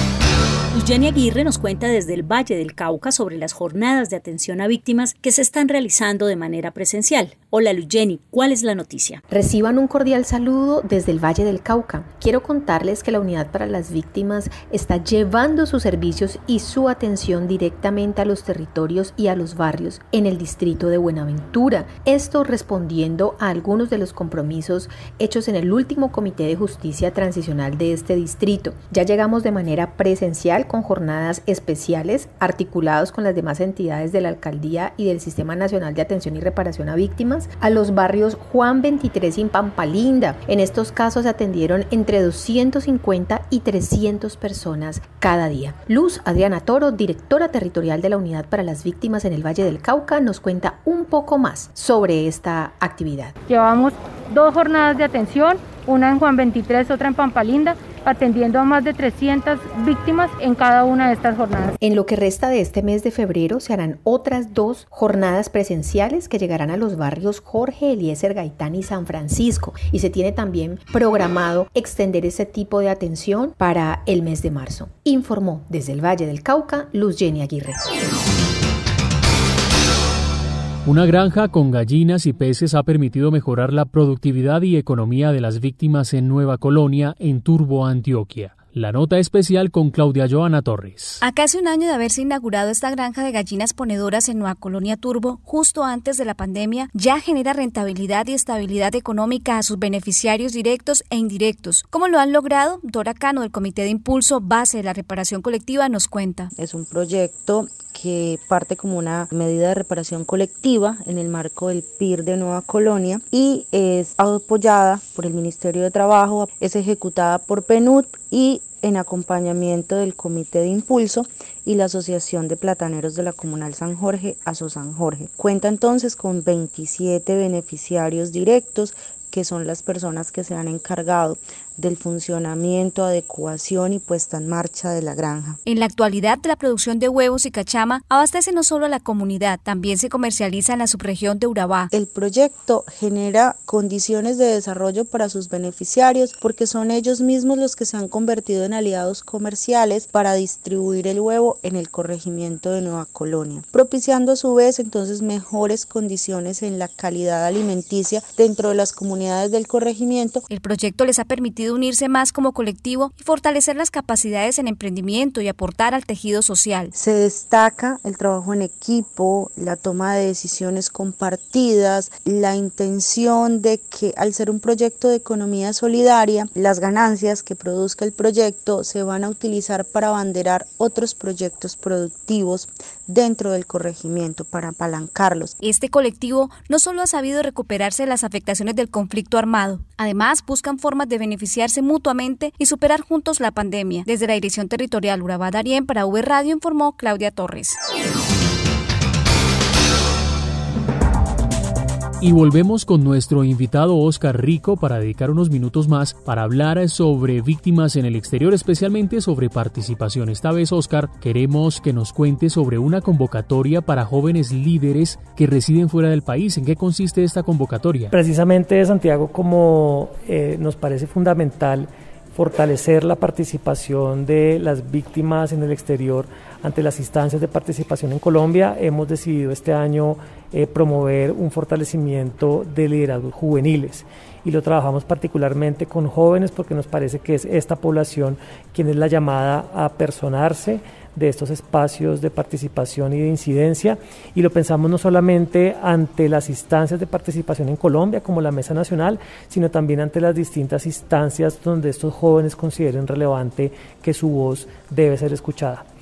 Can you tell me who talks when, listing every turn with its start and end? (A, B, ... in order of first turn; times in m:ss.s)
0:00.7-0:09.2 A
0:09.3-0:53.3 B
0:53.5-1:01.7 C
1:01.8-1:17.8 B
1:20.8-1:31.2 D
1:31.2-1:46.5 E
1:46.6-2:15.6 F
2:15.6-2:21.9 E
2:21.9-2:40.4 F
2:40.5-2:46.9 E
2:46.9-3:05.5 F
3:05.6-3:17.8 E
3:22.2-3:38.1 D
3:38.1-4:15.8 G